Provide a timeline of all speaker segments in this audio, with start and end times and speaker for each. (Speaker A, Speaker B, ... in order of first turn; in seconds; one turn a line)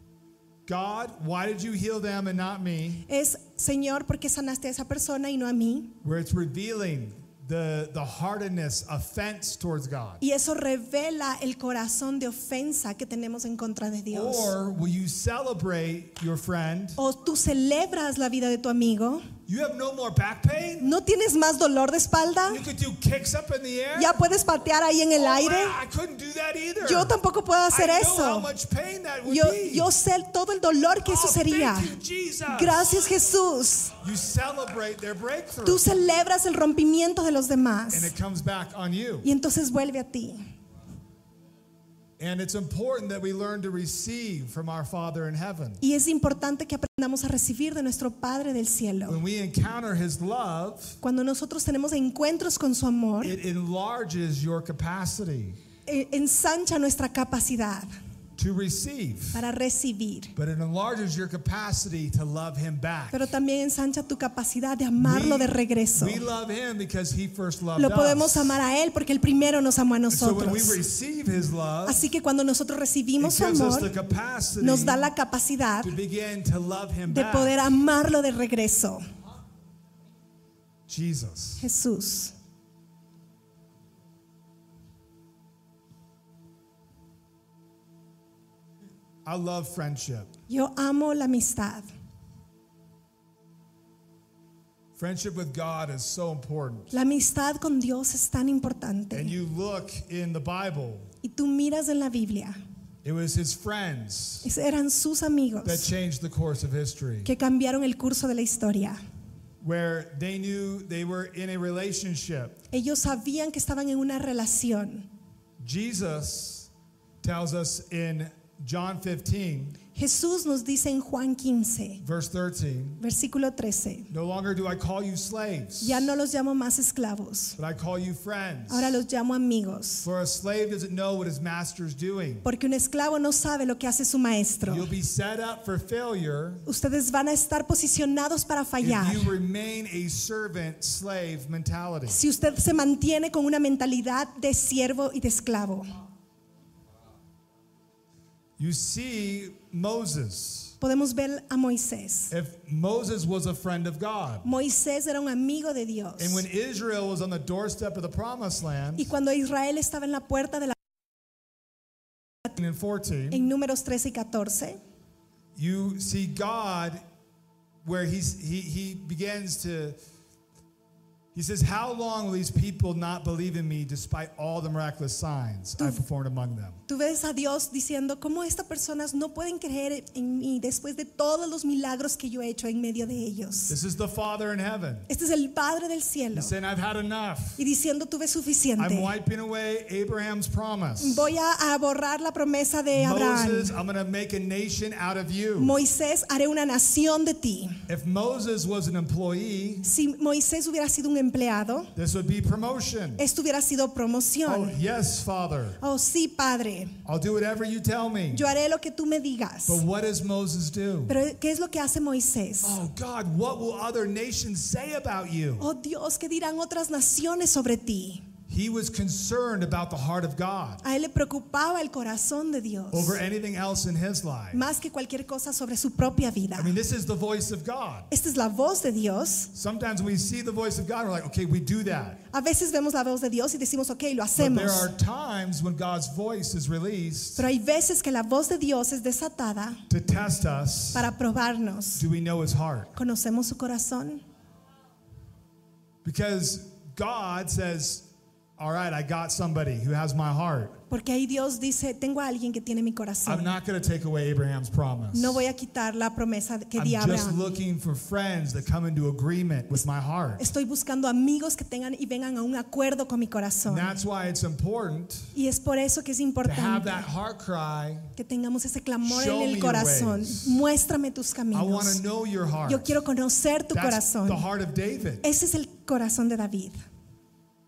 Speaker A: 0.7-3.0
Speaker B: 3.1-5.9
Speaker A: 6.0-10.2
Speaker B: 10.2-14.5
Speaker A: 14.1-17.0
Speaker B: 17.0-19.3
Speaker A: 19.5-20.9
Speaker B: 20.8-22.6
Speaker A: 22.5-24.2
Speaker B: 23.9-25.8
Speaker A: 25.1-27.1
Speaker B: 26.8-28.5
Speaker A: 27.7-29.9
Speaker B: 29.2-32.0
Speaker A: 31.0-33.0
Speaker B: 32.5-33.9
Speaker A: 34.0-35.8
Speaker B: 35.6-38.1
Speaker A: 37.9-39.3
Speaker B: 39.2-40.5
Speaker A: 42.2-45.8
Speaker B: 45.8-49.2
Speaker A: 49.1-51.0
Speaker B: 51.0-53.4
Speaker A: 53.2-55.6
Speaker B: 55.9-57.9
Speaker A: 58.4-59.4
Speaker B: 59.3-60.3
Speaker A: 60.4-63.3
Speaker B: 63.1-66.2
Speaker A: 65.0-68.6
Speaker B: 67.8-70.8
Speaker A: 70.1-72.0
Speaker B: 71.8-73.9
Speaker A: 73.2-75.1
Speaker B: 74.6-75.9
Speaker A: 75.8-77.6
Speaker B: 77.1-79.0
Speaker A: 80.9-81.6
Speaker B: 81.6-82.3
Speaker A: 89.2-90.3
Speaker B: 90.5-91.9
Speaker A: 95.0-96.9
Speaker B: 96.9-99.3
Speaker A: 99.1-101.1
Speaker B: 101.2-102.6
Speaker A: 103.0-104.5
Speaker B: 104.4-105.9
Speaker A: 105.6-107.3
Speaker B: 107.2-109.0
Speaker A: 109.6-112.6
Speaker B: 112.7-115.1
Speaker A: 115.6-116.7
Speaker A: 117.2-119.8
Speaker B: 119.9-122.0
Speaker A: 122.0-123.0
Speaker B: 123.0-124.1
Speaker A: 124.1-126.1
Speaker B: 125.8-127.6
Speaker A: 127.6-129.0
Speaker B: 128.7-130.1
Speaker A: 130.0-132.4
Speaker B: 132.4-134.9
Speaker A: 134.7-136.7
Speaker B: 136.7-139.3
Speaker A: 138.8-142.2
Speaker B: 142.1-145.9
Speaker A: 148.6-150.8
Speaker B: 150.8-152.3
Speaker A: 152.3-154.5
Speaker B: 154.4-156.4
Speaker A: 156.2-159.1
Speaker B: 159.0-160.8
Speaker A: 162.5-163.4
Speaker B: 163.3-164.8
Speaker A: 165.5-167.0
Speaker A: 167.8-170.0
Speaker A: 171.3-176.8
Speaker B: 175.8-176.0
Speaker B: 176.9-183.7
Speaker A: 183.7-185.1
Speaker B: 185.1-186.5
Speaker A: 186.3-187.6
Speaker B: 187.6-189.1
Speaker A: 188.8-191.3
Speaker B: 191.0-193.8
Speaker A: 192.9-195.8
Speaker B: 195.6-197.8
Speaker A: 197.9-199.9
Speaker B: 199.8-201.9
Speaker A: 201.9-203.2
Speaker B: 203.2-204.8
Speaker A: 204.4-205.8
Speaker B: 205.8-207.0
Speaker A: 207.0-208.4
Speaker B: 208.3-209.8
Speaker A: 209.7-211.2
Speaker B: 211.1-212.8
Speaker A: 212.6-215.7
Speaker B: 215.6-218.2
Speaker A: 218.5-220.8
Speaker B: 220.8-223.2
Speaker A: 222.9-224.6
Speaker B: 224.5-226.8
Speaker A: 226.6-228.1
Speaker B: 228.1-229.5
Speaker A: 229.5-232.2
Speaker B: 232.3-234.9
Speaker A: 234.3-237.4
Speaker B: 237.4-239.8
Speaker A: 239.9-241.1
Speaker B: 240.9-242.0
Speaker A: 241.9-242.9
Speaker B: 242.9-244.2
Speaker A: 246.0-248.1
Speaker A: 248.6-250.8
Speaker B: 250.9-253.5
Speaker A: 253.2-255.4
Speaker B: 255.1-257.4
Speaker A: 256.8-260.4
Speaker B: 260.4-263.9
Speaker A: 263.7-265.3
Speaker B: 265.3-267.1
Speaker A: 266.4-268.1
Speaker B: 268.1-272.0
Speaker A: 269.0-270.6
Speaker A: 271.5-273.0
Speaker B: 272.6-274.4
Speaker A: 273.7-275.2
Speaker B: 275.2-276.8